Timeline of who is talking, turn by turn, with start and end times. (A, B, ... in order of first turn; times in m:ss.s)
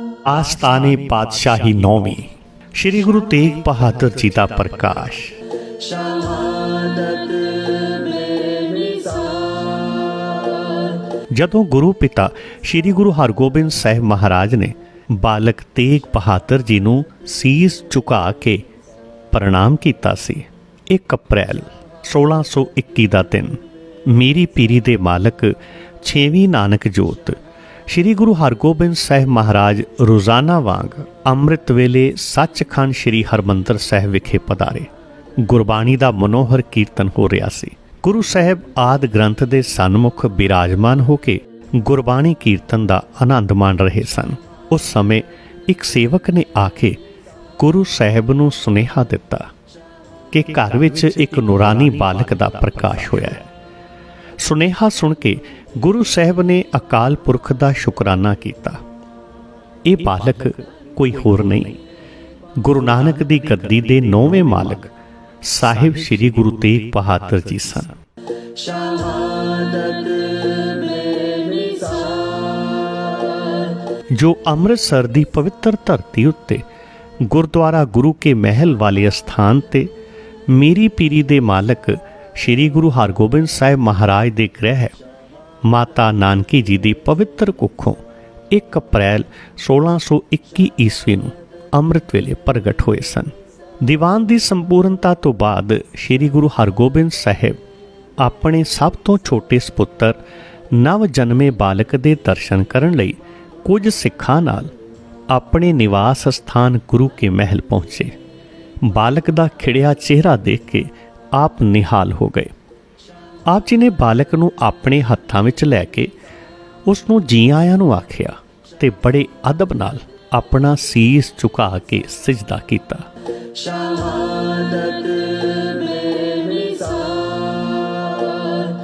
0:00.2-0:05.4 A
0:05.8-0:11.0 B
0:11.3-0:18.6 A
0:19.3-0:47.0 A
0:47.6-0:49.5 A
0:50.3-0:53.5 A
0:54.4-0:58.8 A
0:59.8-1:01.8 A
1:02.6-1:08.0 A
1:08.6-1:13.6 B
1:14.1-1:16.6 A
1:17.2-1:19.9 A
1:20.5-1:24.9 A
1:25.6-1:37.6 A
1:38.2-1:40.2 A
1:40.7-1:44.7 A
1:45.3-1:48.1 A
1:48.8-1:52.5 A
1:53.5-1:56.1 A
1:56.8-2:03.1 A
2:03.6-2:08.7 B